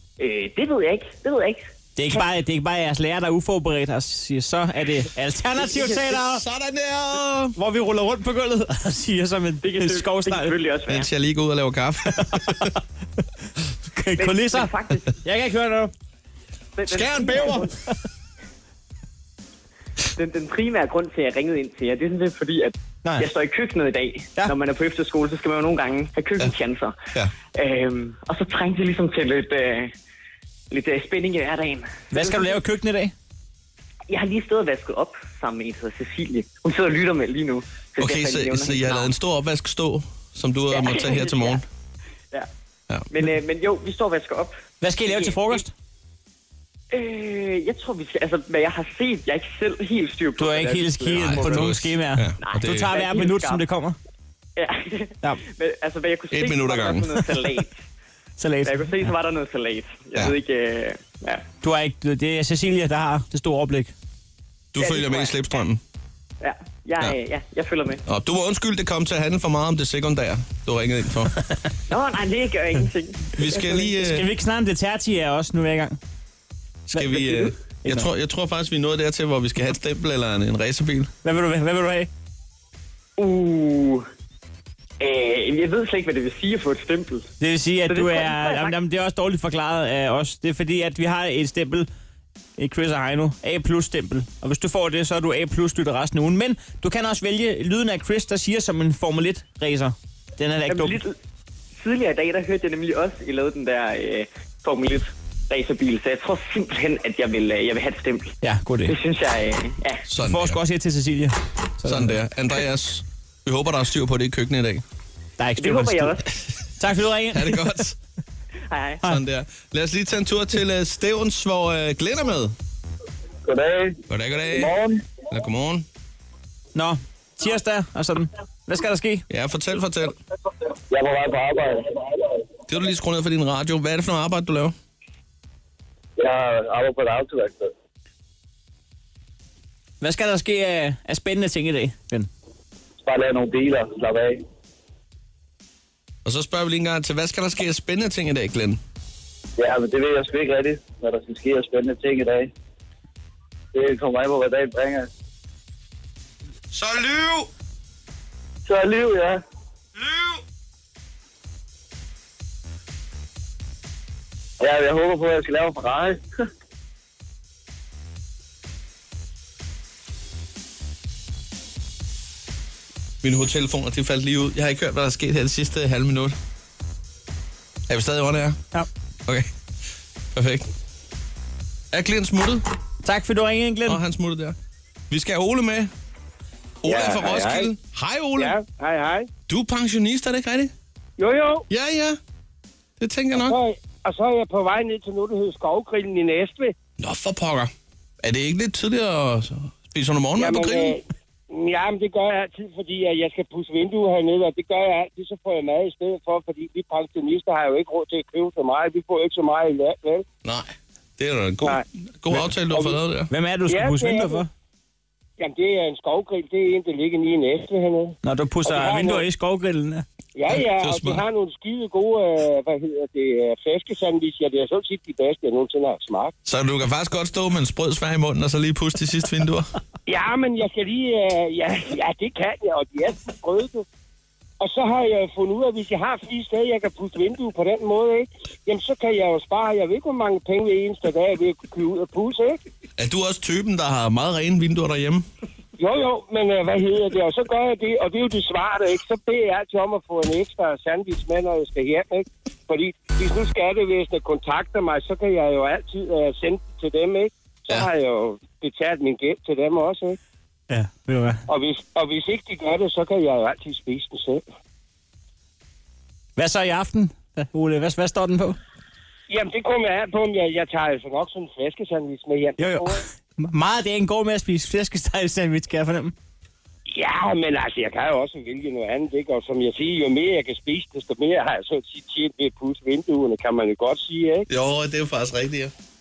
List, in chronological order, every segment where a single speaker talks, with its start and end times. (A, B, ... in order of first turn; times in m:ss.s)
0:00.2-0:02.2 A
0:02.0-0:06.4 B
0:06.1-0:07.6 C
0:07.6-0:10.6 B
0:09.6-0:11.1 A
0:10.9-0:12.7 C
0:12.1-0:12.7 B
0:13.9-0:15.9 B
0:14.2-0:15.1 A
0:16.8-0:17.7 A
0:16.9-0:17.7 C
0:20.2-0:27.0 A
0:27.5-0:29.9 A
0:30.7-0:32.6 A
0:32.1-0:33.1 B
0:34.1-0:39.1 A
0:38.0-0:41.6 C
0:40.7-0:41.6 A
0:43.1-0:45.7 A
0:44.8-0:45.7 B
0:46.9-0:51.8 A
0:50.4-0:54.0 B
0:51.1-0:52.9 C
0:52.4-0:53.7 A
0:54.6-0:57.8 A
0:56.3-0:57.3 C
0:58.4-0:59.1 B
0:58.6-1:01.4 A
1:01.6-1:03.9 B
1:04.7-1:05.8 C
1:04.8-1:05.6 A
1:06.4-1:08.0 A
1:08.1-1:11.4 C
1:11.9-1:13.9 A
1:13.3-1:14.2 C
1:14.0-1:16.0 B
1:16.9-1:21.1 C
1:16.9-1:18.1 B
1:21.2-1:22.1 B
1:23.2-1:24.1 A
1:25.0-1:27.3 A
1:27.4-1:31.9 B
1:27.9-1:28.8 A
1:32.6-1:41.0 B
1:40.7-1:41.2 A
1:41.8-1:50.1 A
1:48.4-1:49.0 B
1:50.1-1:50.6 C
1:50.2-1:52.2 B
1:51.8-1:54.8 C
1:55.4-1:56.2 B
1:55.6-1:56.3 A
1:56.8-1:57.8 B
1:57.3-1:58.0 C
1:58.7-1:59.0 A
1:59.0-2:02.5 C
2:03.5-2:04.0 D
2:04.1-2:05.9 C
2:04.5-2:05.0 D
2:06.8-2:09.2 B
2:09.3-2:10.2 C
2:10.9-2:12.2 D
2:12.7-2:14.8 C
2:16.2-2:17.7 D
2:20.0-2:22.3 B
2:23.0-2:24.4 D
2:26.2-2:28.8 C
2:29.6-2:32.5 D
2:33.7-2:35.1 D
2:36.7-2:37.5 C
2:38.7-2:39.4 D
2:40.0-2:40.4 C
2:44.6-2:46.2 D
2:53.2-2:56.4 C
2:57.9-2:58.6 C
3:00.3-3:00.7 C
3:01.9-3:02.6 C
3:03.0-3:04.0 B
3:03.9-3:04.6 C
3:05.1-3:05.9 C
3:06.8-3:08.6 C
3:06.8-3:07.7 E
3:08.4-3:09.3 E
3:09.5-3:10.7 C
3:11.2-3:11.6 E
3:11.7-3:12.2 C
3:13.0-3:13.6 C
3:13.4-3:16.8 E
3:17.0-3:21.0 C
3:20.4-3:30.2 E
3:30.4-3:33.3 C
3:32.7-3:33.0 E
3:33.3-3:34.5 B
3:33.7-3:34.4 E
3:35.4-3:39.2 E
3:38.2-3:40.0 B
3:40.4-3:46.3 E
3:40.5-3:41.2 C
3:46.5-3:49.7 C
3:50.1-3:53.8 E
3:54.6-4:02.6 E
4:03.0-4:05.3 C
4:05.8-4:20.2 E
4:20.7-4:21.4 B
4:21.5-4:24.4 E
4:26.4-4:28.6 B
4:29.3-4:33.0 E
4:32.6-4:36.1 B
4:36.9-4:44.5 E
4:44.5-4:45.7 C